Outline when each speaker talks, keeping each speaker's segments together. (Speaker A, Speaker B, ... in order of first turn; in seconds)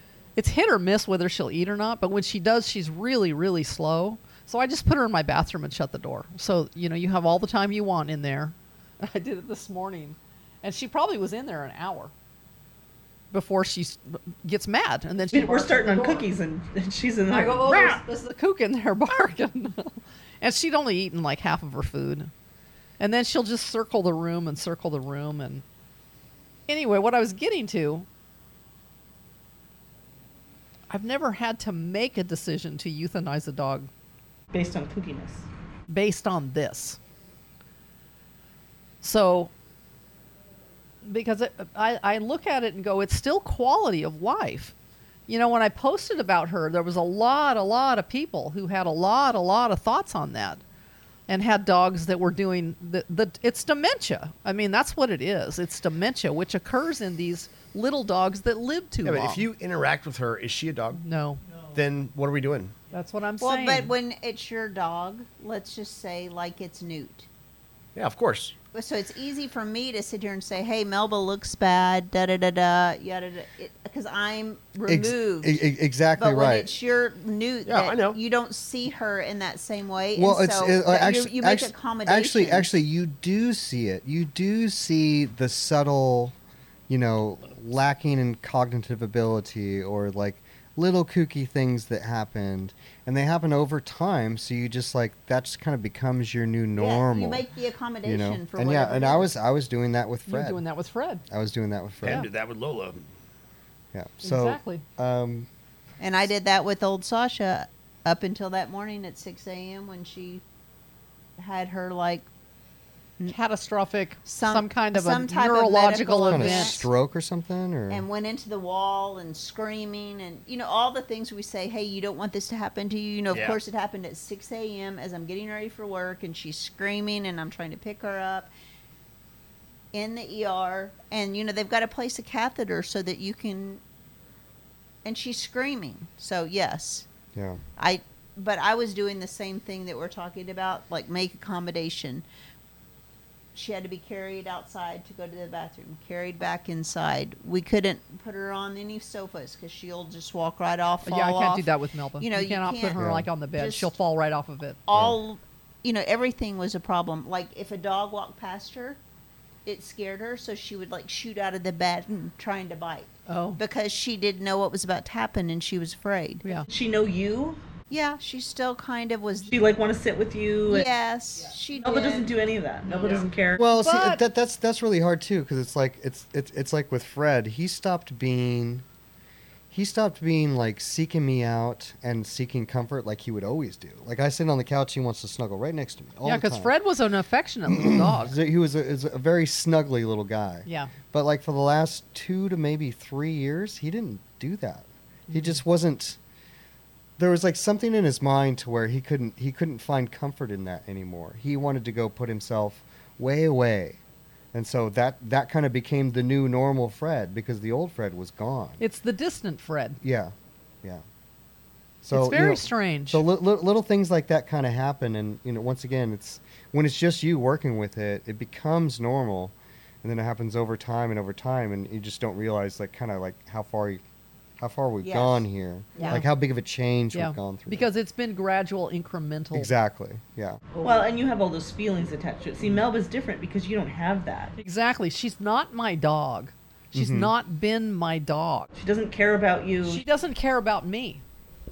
Speaker A: 0.3-12.1, 13.3-16.2, 17.3-22.3, 23.0-25.6, 26.7-28.1, 30.9-33.9, 35.9-37.0, 39.0-39.5, 41.0-44.7, 45.3-50.6, 51.3-59.5, 61.0-61.4, 62.9-63.9, 100.2-101.2, 104.2-104.8, 113.3-116.9, 151.0-154.8, 163.3-163.6, 173.7-174.2, 186.2-188.4, 190.7-190.9, 195.3-195.6, 208.8-210.0, 212.1-213.2, 226.0-226.2, 227.1-229.7, 234.6-238.7, 239.8-241.2
Speaker B: 15.3-18.0, 34.5-35.5, 166.7-167.6, 169.4-170.9, 171.7-173.6, 230.8-234.5, 238.8-240.0
Speaker C: 59.0-61.0, 61.7-62.7, 67.9-68.5, 77.6-78.2, 102.0-103.0, 123.3-123.6
Speaker D: 63.4-67.3, 68.7-75.6, 76.2-82.7, 96.7-99.3, 106.0-110.4, 111.4-112.3, 114.2-116.9, 117.9-128.5, 129.9-133.8, 135.0-137.1, 137.8-142.2, 143.5-153.0, 153.5-153.9, 154.9-159.0, 159.6-166.4, 167.9-169.6, 170.7-172.3, 225.0-226.2
Speaker E: 74.9-76.7, 80.2-86.3, 86.9-97.4, 98.0-100.6, 101.3-102.3, 103.9-105.5, 116.3-118.0, 137.3-137.6, 153.0-153.3, 154.9-155.2, 173.6-178.8, 179.7-186.7, 187.7-196.2, 197.2-204.0, 204.5-208.8, 210.0-211.0, 212.0-224.0, 224.6-227.9, 229.5-230.6, 236.9-237.3